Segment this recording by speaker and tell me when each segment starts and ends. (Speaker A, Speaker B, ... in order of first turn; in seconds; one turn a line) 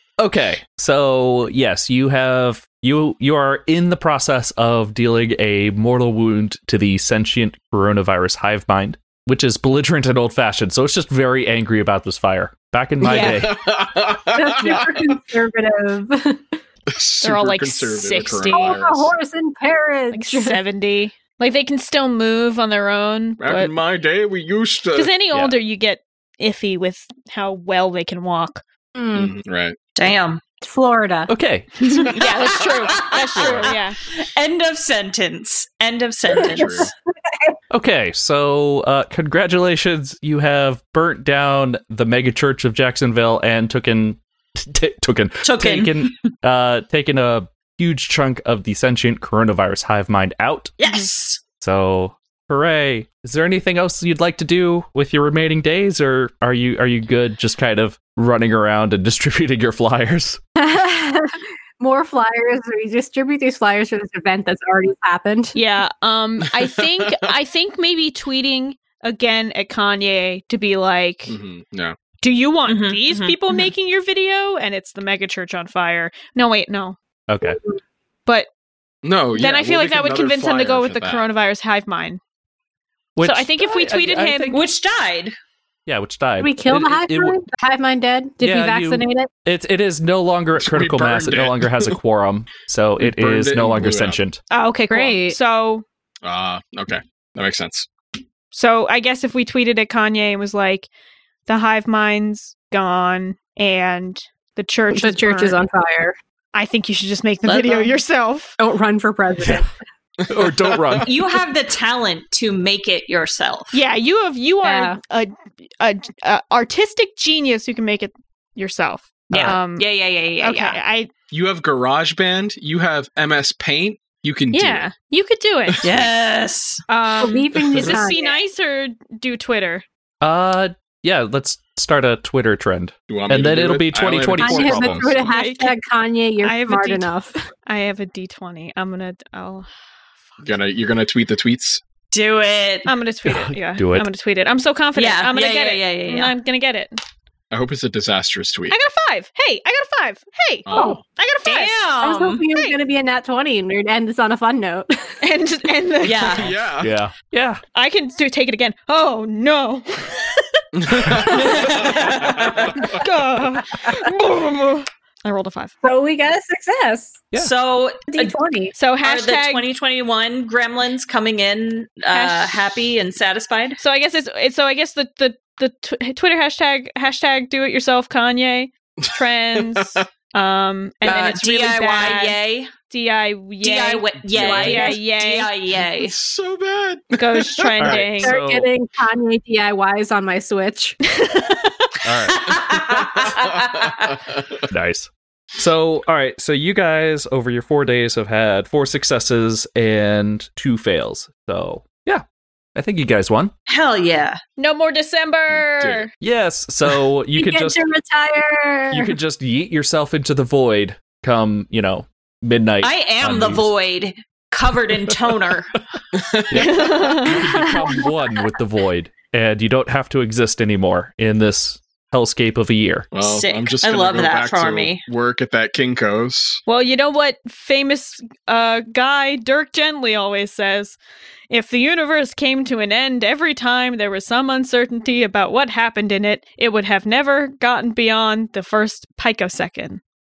Speaker A: 0.2-13.7
Speaker B: 13.0-15.2
Speaker C: 13.0-13.5
Speaker D: 14.3-16.6
Speaker B: 16.9-19.1
Speaker C: 17.2-18.8
Speaker D: 18.5-20.6
Speaker C: 20.1-23.7
Speaker B: 23.4-25.1
Speaker C: 24.9-28.6
Speaker D: 28.9-29.3
Speaker B: 29.1-29.8
Speaker E: 29.9-30.4
Speaker D: 30.6-31.3
Speaker A: 31.3-32.0
Speaker E: 31.9-36.9
Speaker C: 32.0-34.0
Speaker B: 33.4-33.7
Speaker B: 36.3-36.9
Speaker D: 36.4-37.5
Speaker A: 37.7-50.7
Speaker E: 45.4-46.2
Speaker E: 50.8-51.4
Speaker A: 51.6-60.4
Speaker D: 60.6-65.6
Speaker C: 65.5-71.4
Speaker B: 71.3-72.0
Speaker C: 72.2-77.0
Speaker E: 72.7-73.7
Speaker A: 77.3-77.6
Speaker B: 79.0-81.3
Speaker C: 79.4-82.2
Speaker A: 83.2-84.6
Speaker C: 83.2-84.6
Speaker E: 84.5-85.4
Speaker A: 85.9-87.4
Speaker D: 86.4-89.3
Speaker A: 88.4-94.4
Speaker B: 90.6-92.0
Speaker B: 93.0-94.2
Speaker C: 94.5-95.8
Speaker D: 94.9-95.4
Speaker B: 96.2-97.9
Speaker C: 98.5-100.9
Speaker C: 101.5-105.6
Speaker D: 104.9-106.2
Speaker C: 106.5-108.6
Speaker E: 107.5-107.9
Speaker D: 108.6-109.7
Speaker A: 110.3-111.1
Speaker B: 110.3-111.0
Speaker E: 111.0-113.8
Speaker C: 113.7-119.9
Speaker D: 114.6-115.0
Speaker A: 119.3-119.6
Speaker E: 119.3-120.8
Speaker C: 120.4-121.1
Speaker B: 121.3-124.9
Speaker C: 124.5-125.9
Speaker B: 125.7-126.0
Speaker E: 125.8-126.8
Speaker C: 126.9-129.8
Speaker D: 127.2-128.3
Speaker A: 130.2-135.2
Speaker B: 133.1-135.2
Speaker D: 134.4-137.4
Speaker C: 135.3-135.8
Speaker C: 136.4-137.1
Speaker C: 137.7-139.7
Speaker B: 140.4-141.8
Speaker E: 142.1-142.9
Speaker C: 142.9-147.0
Speaker A: 143.3-144.1
Speaker E: 145.0-146.3
Speaker B: 147.5-148.8
Speaker C: 148.7-151.8
Speaker B: 150.7-151.0
Speaker E: 151.5-152.4
Speaker D: 152.0-155.1
Speaker C: 155.2-156.4
Speaker E: 156.0-156.5
Speaker B: 156.3-157.0
Speaker A: 156.8-157.6
Speaker C: 157.8-161.8
Speaker B: 160.8-163.0
Speaker E: 161.2-162.9
Speaker C: 162.8-165.7
Speaker D: 165.8-167.3
Speaker E: 167.4-168.4
Speaker D: 168.1-168.8
Speaker C: 168.8-169.7
Speaker E: 169.0-173.8
Speaker C: 172.1-172.7
Speaker C: 173.8-182.4
Speaker B: 179.0-180.1
Speaker E: 181.0-182.7
Speaker C: 182.9-185.5
Speaker E: 183.6-186.2
Speaker B: 184.3-184.9
Speaker B: 185.9-188.0
Speaker C: 187.2-188.3
Speaker A: 187.8-188.7
Speaker D: 188.2-191.0
Speaker C: 191.1-192.0
Speaker A: 192.0-192.6
Speaker E: 192.3-194.2
Speaker B: 192.8-194.6
Speaker A: 194.7-202.2
Speaker A: 202.8-203.5
Speaker E: 203.7-204.4
Speaker C: 204.6-206.1
Speaker B: 205.5-206.1
Speaker A: 206.2-207.8
Speaker D: 207.3-209.2
Speaker A: 208.9-213.7
Speaker E: 212.8-215.7
Speaker B: 216.1-217.3
Speaker A: 216.5-223.1
Speaker C: 216.5-217.4
Speaker D: 217.6-218.1
Speaker B: 223.1-226.6
Speaker E: 223.2-225.0
Speaker C: 226.7-231.0
Speaker C: 231.5-240.0